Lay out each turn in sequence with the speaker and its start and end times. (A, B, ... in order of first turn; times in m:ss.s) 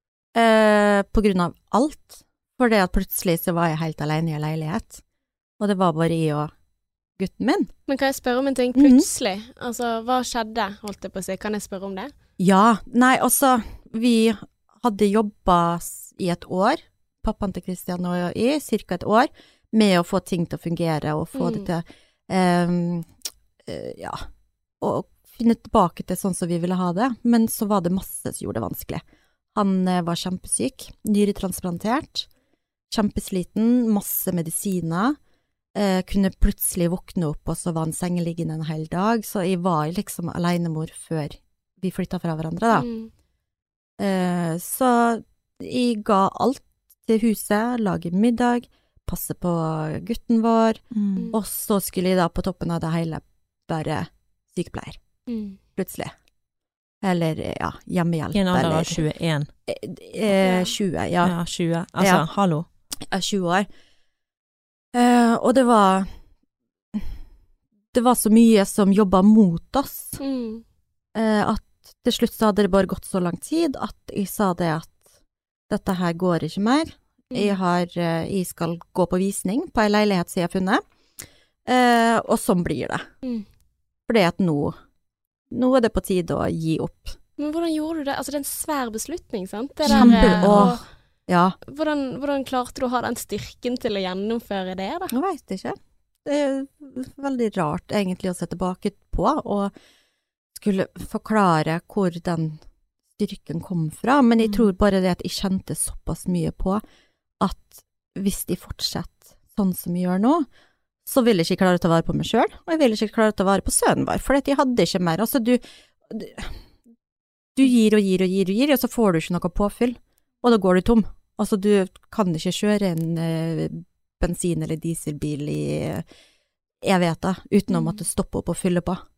0:00.4-0:05.0 A
0:05.6-0:06.5 A
0:07.2-0:07.7 A
0:07.9-0:12.1 B
0:08.8-0:09.1 A
0:12.4-0:23.1 A
0:21.3-0:21.7 B
0:23.6-0:24.2 A
0:24.8-0:29.0 A
0:29.6-0:32.3 A
0:32.9-0:35.2 A
0:35.8-0:42.9 A
0:42.7-0:43.1 B
0:44.0-0:50.8 A
0:50.9-0:51.3 C
0:51.3-0:55.0 A
0:55.3-0:55.6 B
0:55.8-0:56.1 A
0:57.0-0:59.0 A
0:58.3-0:59.5 C
0:59.7-1:01.4 A
1:00.3-1:00.7 B
1:01.2-1:02.7 C
1:02.0-1:02.3 A
1:03.1-1:03.7 A
1:04.9-1:06.1 A
1:07.9-1:10.2 A
1:10.2-1:10.6 B
1:11.2-1:15.0 A
1:15.7-1:20.8 A
1:17.3-1:17.6 B
1:21.7-1:23.0 A
1:24.1-1:24.8 A
1:25.5-1:27.2 A
1:27.4-1:30.8 B
1:29.9-1:30.8 C
1:29.9-1:31.6 A
1:31.7-1:35.1 B
1:35.1-1:39.7 A
1:40.6-1:42.6 A
1:43.2-1:46.8 A
1:47.4-1:50.5 A
1:51.1-1:56.6 A
1:57.6-2:06.0 A
2:06.8-2:09.0 A